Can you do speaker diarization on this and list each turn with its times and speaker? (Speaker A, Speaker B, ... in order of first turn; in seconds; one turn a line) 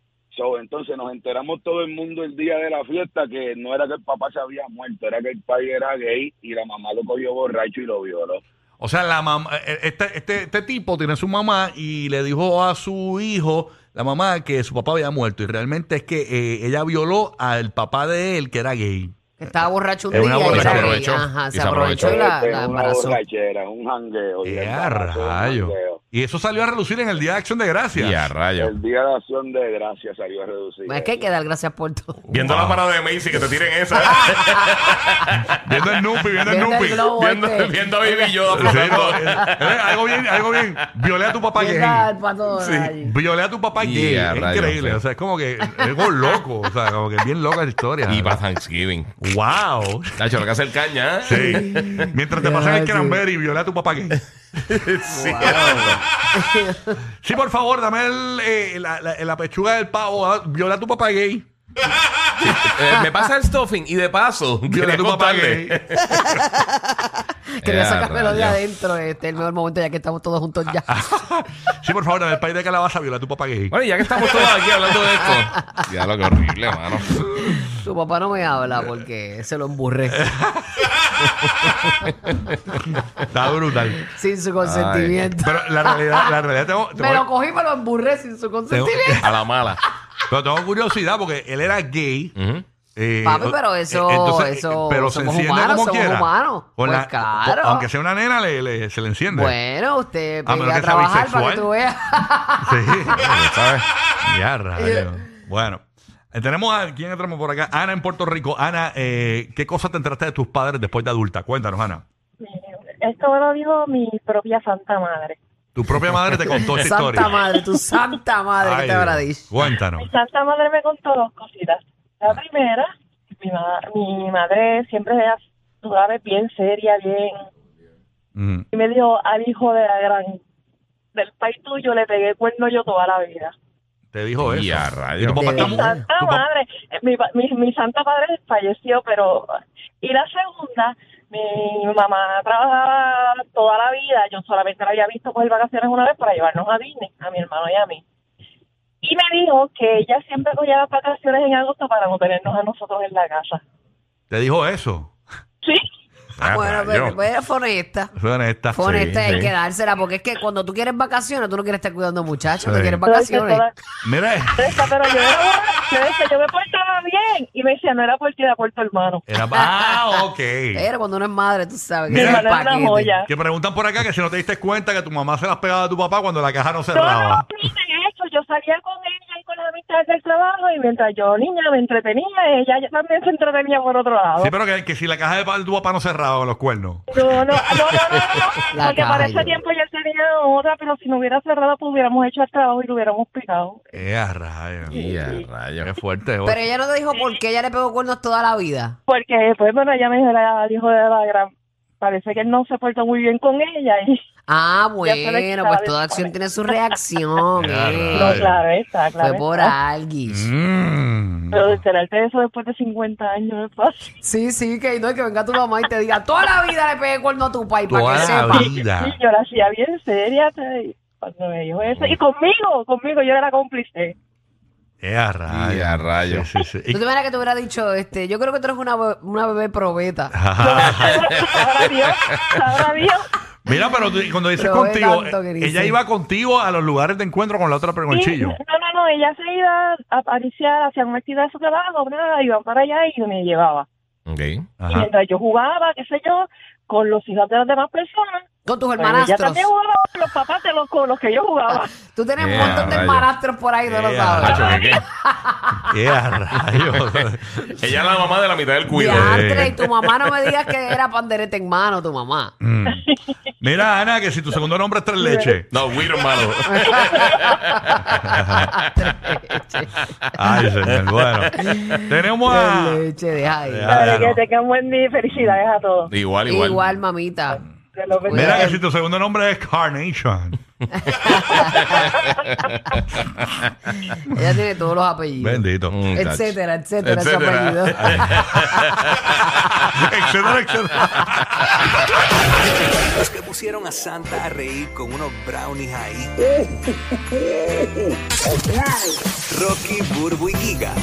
Speaker A: 0.3-8.4
Speaker B: 8.8-19.2
Speaker C: 19.4-23.2
Speaker B: 20.1-21.0
Speaker A: 20.1-20.9
Speaker D: 20.4-22.2
Speaker A: 22.0-26.0
Speaker B: 24.4-28.3
Speaker D: 27.9-28.7
Speaker A: 28.6-31.3
Speaker C: 30.9-32.2
Speaker D: 32.3-36.2
Speaker B: 32.4-32.9
Speaker C: 34.0-34.9
Speaker B: 35.6-37.0
Speaker C: 36.4-39.5
Speaker D: 36.7-41.4
Speaker B: 38.5-42.1
Speaker C: 41.5-43.2
Speaker D: 42.5-43.0
Speaker B: 43.0-48.4
Speaker D: 43.8-45.0
Speaker D: 48.1-49.1
Speaker B: 49.2-50.3
Speaker D: 50.2-52.0
Speaker B: 51.2-54.2
Speaker C: 51.4-53.2
Speaker D: 54.7-56.0
Speaker C: 55.1-57.0
Speaker B: 57.2-61.5
Speaker D: 62.4-66.1
Speaker B: 64.6-65.8
Speaker C: 66.0-66.8
Speaker C: 67.6-71.1
Speaker D: 67.6-68.6
Speaker B: 70.8-75.0
Speaker D: 73.7-77.2
Speaker B: 77.2-77.7
Speaker C: 77.5-80.3
Speaker B: 80.1-81.2
Speaker B: 83.3-84.1
Speaker C: 84.0-86.4
Speaker D: 84.6-85.3
Speaker B: 85.4-87.3
Speaker C: 86.9-89.5
Speaker B: 88.7-89.2
Speaker D: 89.2-89.8
Speaker B: 90.3-92.3
Speaker D: 92.3-92.7
Speaker B: 92.9-99.6
Speaker C: 93.2-97.9
Speaker C: 99.3-103.4
Speaker B: 100.4-101.7
Speaker B: 102.6-103.2
Speaker D: 103.2-103.8
Speaker B: 104.2-112.0
Speaker C: 104.8-105.2
Speaker E: 112.4-115.4
Speaker B: 115.7-117.4
Speaker C: 116.5-119.7
Speaker B: 118.6-120.1
Speaker E: 119.9-127.3
Speaker B: 128.3-128.7
Speaker E: 128.7-130.4
Speaker E: 131.1-133.5
Speaker B: 134.1-136.4
Speaker D: 134.4-135.9
Speaker C: 135.3-136.1
Speaker E: 135.6-148.0
Speaker E: 149.0-153.6
Speaker B: 154.3-155.1
Speaker D: 156.4-157.2
Speaker C: 156.5-158.1
Speaker B: 158.1-158.9
Speaker C: 158.7-163.6
Speaker D: 158.9-159.5
Speaker B: 162.6-163.0
Speaker E: 163.1-163.7
Speaker B: 164.0-164.9
Speaker E: 164.6-169.2
Speaker B: 169.3-170.9
Speaker C: 169.5-173.2
Speaker E: 172.1-173.3
Speaker B: 172.1-172.4
Speaker B: 173.2-177.5
Speaker E: 176.9-184.5
Speaker B: 184.4-187.3
Speaker E: 187.1-193.9
Speaker D: 187.7-188.6
Speaker C: 188.7-189.6
Speaker B: 193.9-195.0
Speaker D: 194.9-195.9
Speaker E: 194.9-195.5
Speaker B: 195.8-196.6
Speaker C: 196.4-199.0
Speaker E: 197.1-197.4
Speaker E: 199.1-204.2
Speaker C: 204.5-208.4
Speaker E: 205.0-206.8
Speaker B: 207.6-208.6
Speaker D: 207.7-208.2
Speaker E: 208.1-209.7
Speaker C: 209.2-210.5
Speaker B: 210.3-211.8
Speaker E: 211.5-214.1
Speaker C: 214.2-218.7
Speaker B: 217.8-219.2
Speaker E: 218.1-224.1
Speaker D: 221.9-222.2
Speaker B: 225.0-227.0
Speaker D: 225.5-226.5
Speaker C: 226.9-230.4
Speaker B: 230.3-231.2
Speaker E: 230.5-233.3
Speaker D: 230.9-232.6
Speaker B: 233.7-238.6
Speaker C: 234.5-236.0
Speaker E: 238.1-243.9
Speaker D: 244.3-244.7
Speaker B: 244.8-245.1
Speaker E: 244.8-248.4
Speaker C: 248.6-249.6
Speaker E: 249.0-251.9
Speaker C: 251.7-255.8
Speaker D: 252.4-253.3
Speaker B: 252.6-252.9
Speaker B: 253.8-254.8
Speaker D: 254.4-255.0
Speaker E: 254.6-254.9
Speaker B: 255.9-257.6
Speaker D: 256.6-257.2
Speaker D: 257.8-260.2
Speaker C: 258.9-262.5
Speaker B: 259.1-259.8
Speaker B: 262.6-263.0
Speaker E: 262.9-263.2
Speaker B: 263.6-265.7
Speaker E: 265.2-267.6
Speaker D: 265.7-269.3
Speaker C: 266.6-269.9
Speaker B: 268.2-268.7
Speaker B: 270.4-271.5
Speaker D: 270.8-272.0
Speaker C: 271.6-274.2
Speaker B: 272.1-273.0
Speaker B: 273.6-274.4
Speaker E: 273.9-276.1
Speaker D: 276.1-276.9
Speaker C: 276.4-277.6
Speaker E: 277.5-278.8
Speaker C: 278.2-278.8
Speaker B: 278.3-280.6
Speaker C: 281.1-281.9
Speaker E: 281.6-282.5
Speaker D: 281.8-282.1
Speaker C: 284.4-288.6
Speaker B: 285.4-286.1
Speaker D: 285.9-289.6
Speaker B: 289.8-291.8
Speaker F: 293.5-295.9